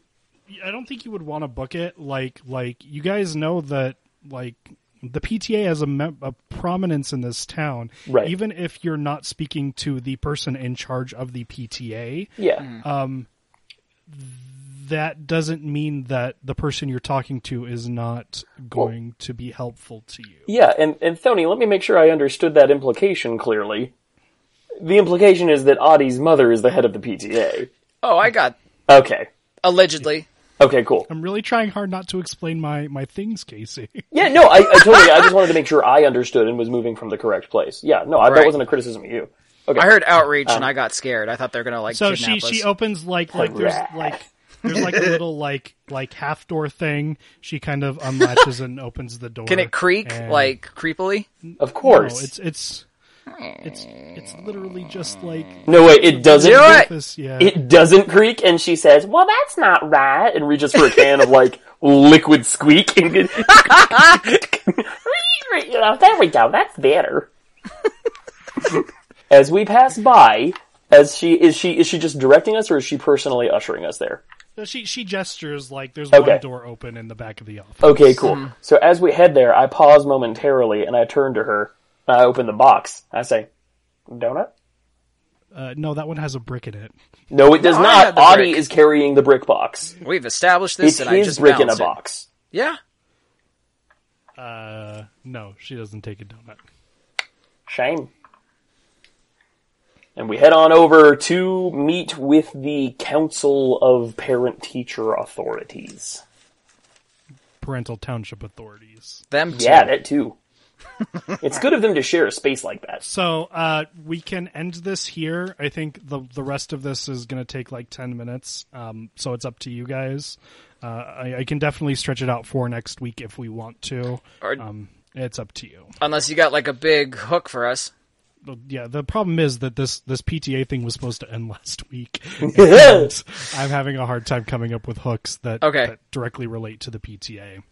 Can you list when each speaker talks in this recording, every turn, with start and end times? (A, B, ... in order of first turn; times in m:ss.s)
0:00.5-0:13.3 A
0:08.1-0:08.3 B
0:12.4-0:12.6 B
0:14.1-0:20.5 A
0:20.5-0:23.9 B
0:24.8-0:27.7 B
0:28.0-0:28.6 C
0:28.9-0:29.3 B
0:29.6-0:30.3 C
0:30.6-0:31.1 B
0:31.1-0:34.1 A
0:34.1-0:39.9 B
0:38.2-0:38.6 C
0:39.8-0:42.7 C
0:40.4-0:40.7 B
0:41.9-0:50.6 A
0:43.3-0:44.2 B
0:49.5-0:51.3 C
0:51.5-0:52.8 A
0:51.6-0:52.3 B
0:53.6-0:57.6 A
0:55.7-1:07.3 B
0:56.4-0:56.9 C
1:08.6-1:14.2 B
1:14.6-1:18.2 A
1:16.1-1:16.4 B
1:17.8-1:23.5 B
1:18.2-1:18.5 C
1:24.1-1:24.5 B
1:25.5-1:26.9 A
1:27.3-1:30.0 B
1:27.6-1:28.6 C
1:30.0-1:31.9 C
1:30.8-1:32.3 B
1:32.5-1:32.8 C
1:34.4-1:36.6 A
1:37.7-1:38.1 B
1:40.2-1:46.2 B
1:47.6-1:49.2 A
1:49.3-1:49.9 C
1:49.5-1:50.4 B
1:51.4-1:53.0 B
1:53.0-2:05.9 A
2:06.0-2:07.9 C
2:08.4-2:17.6 A
2:12.5-2:13.1 B
2:15.6-2:15.9 C